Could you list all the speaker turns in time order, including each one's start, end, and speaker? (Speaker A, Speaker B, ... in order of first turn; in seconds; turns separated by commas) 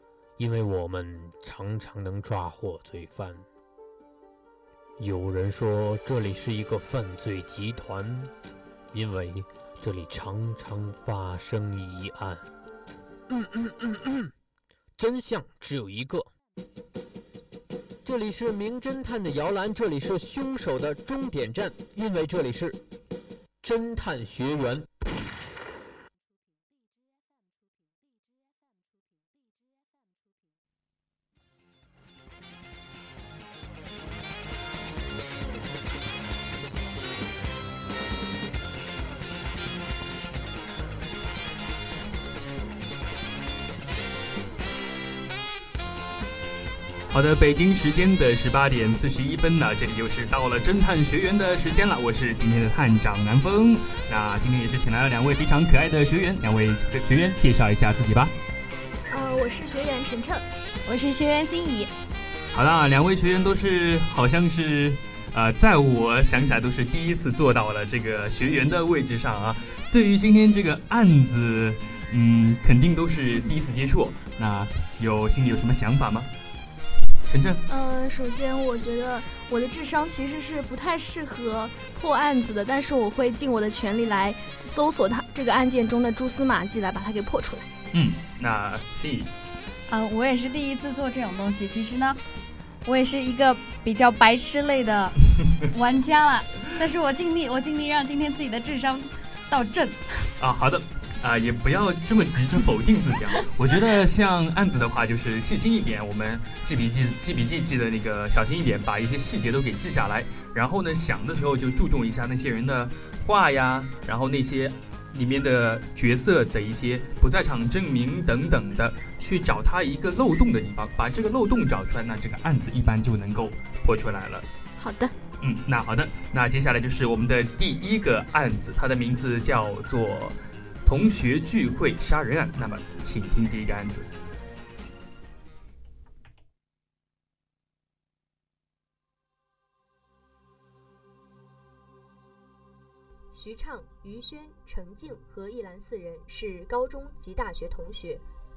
Speaker A: 0.4-3.5, Speaker A: 5.0-8.3, Speaker A: 8.9-12.5, Speaker A: 13.3-14.3, Speaker A: 15.0-16.3, Speaker A: 18.1-22.8, Speaker A: 23.6-24.9, Speaker B: 47.1-58.3, Speaker C: 59.1-60.5, Speaker D: 60.9-61.9, Speaker B: 62.5-76.3, Speaker B: 77.3-77.6, Speaker C: 77.7-87.7, Speaker B: 87.9-89.3, Speaker D: 89.9-92.2, Speaker D: 92.8-100.3, Speaker B: 100.4-124.5, Speaker C: 124.8-125.2, Speaker B: 125.4-134.1, Speaker E: 143.3-148.2